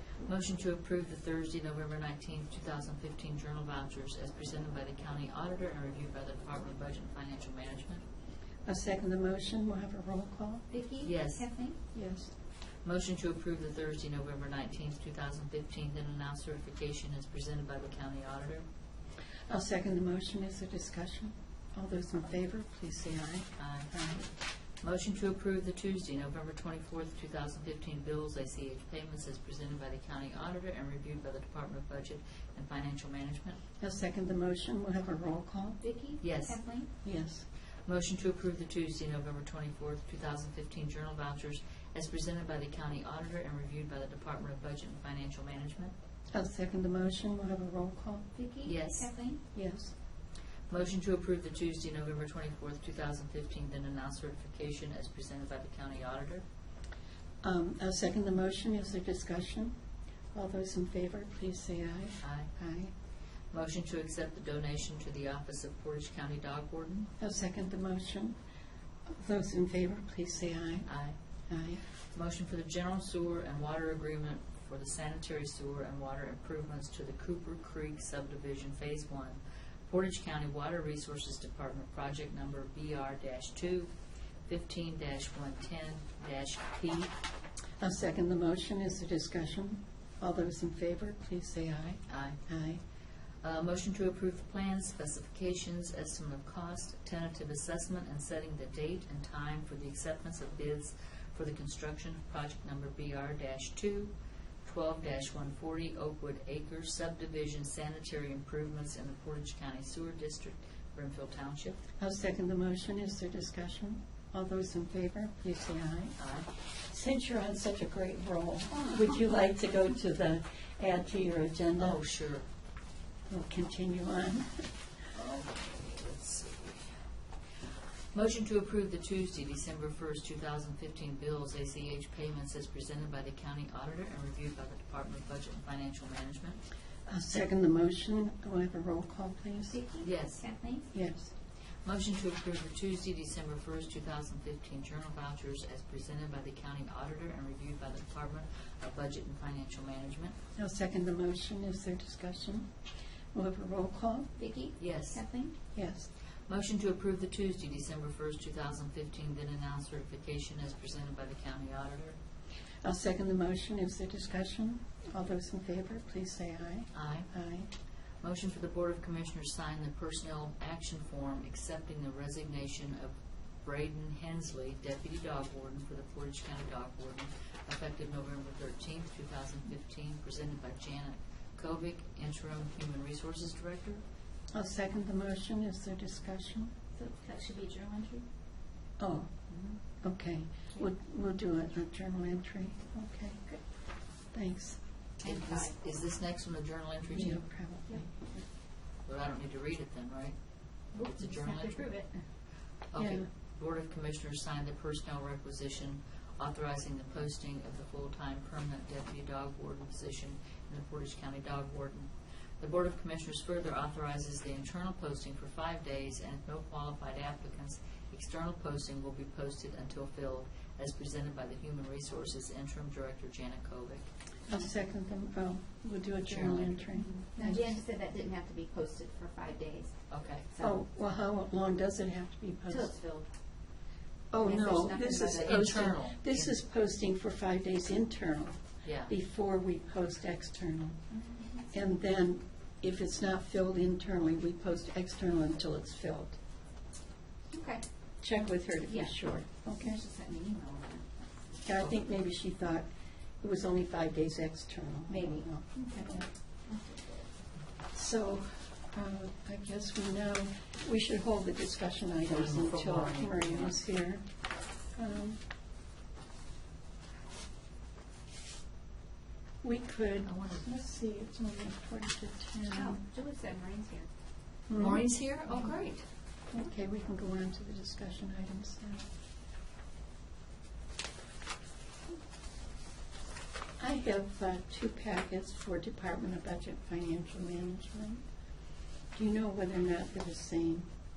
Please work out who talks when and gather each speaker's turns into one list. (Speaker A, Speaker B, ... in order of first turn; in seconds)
Speaker A: 0.2-8.0, 11.0-11.4, 12.8-18.6, 23.6-23.9, 24.8-33.6, 36.2-36.6, 37.9-45.9, 48.6-49.1, 50.7-56.4, 62.2-62.5, 63.5-67.1, 70.8-71.2, 72.0-83.9, 84.5-87.1, 92.1-92.4, 93.4-104.1, 104.6-111.8, 116.2-116.5, 121.8-122.5, 125.1-126.9, 128.1-136.6, 140.0-140.4, 141.8-150.3, 154.8-155.2, 156.5-162.2, 166.9-167.3, 168.2-184.0, 195.2-197.4, 199.0-200.4, 201.0-201.8, 202.9-224.1, 226.2-226.9, 230.1-230.5, 235.3-236.5, 238.8-239.1, 262.2-263.8, 270.2-270.6, 274.7-275.9
Speaker B: 8.7-10.7, 11.9-12.3, 19.5-24.2, 33.8-35.8, 37.0-37.5, 46.3-48.3, 49.5-49.9, 57.4-59.7, 60.3-62.9, 67.2-68.4, 69.1-70.9, 71.5-71.8, 87.8-92.8, 112.0-122.0, 123.3-124.7, 137.1-139.8, 140.9-141.3, 150.6-152.7, 153.3-154.3, 155.7-156.1, 162.8-167.7, 184.5-186.7, 189.0-189.3, 189.9-193.4, 194.3-194.8, 197.1-198.1, 203.0-203.2, 224.5-227.7, 230.6-232.9, 234.3-241.0, 241.7-246.4, 248.2-250.0, 251.6-252.9, 253.4-256.2, 257.9-264.2, 264.9-265.4, 269.6-273.0, 274.7-275.7, 276.5-279.0, 283.8-288.2, 289.1-290.9
Speaker C: 10.7-11.8, 35.8-36.9, 48.3-49.4, 139.7-140.9, 154.4-155.5, 187.0-188.2, 195.2-195.7, 197.9-198.4, 200.9-202.2, 227.3-229.9, 232.7-233.3, 234.4-235.9, 241.1-241.7, 247.5-247.8, 248.8-251.5, 255.1-257.3, 272.7-274.1, 275.5-276.0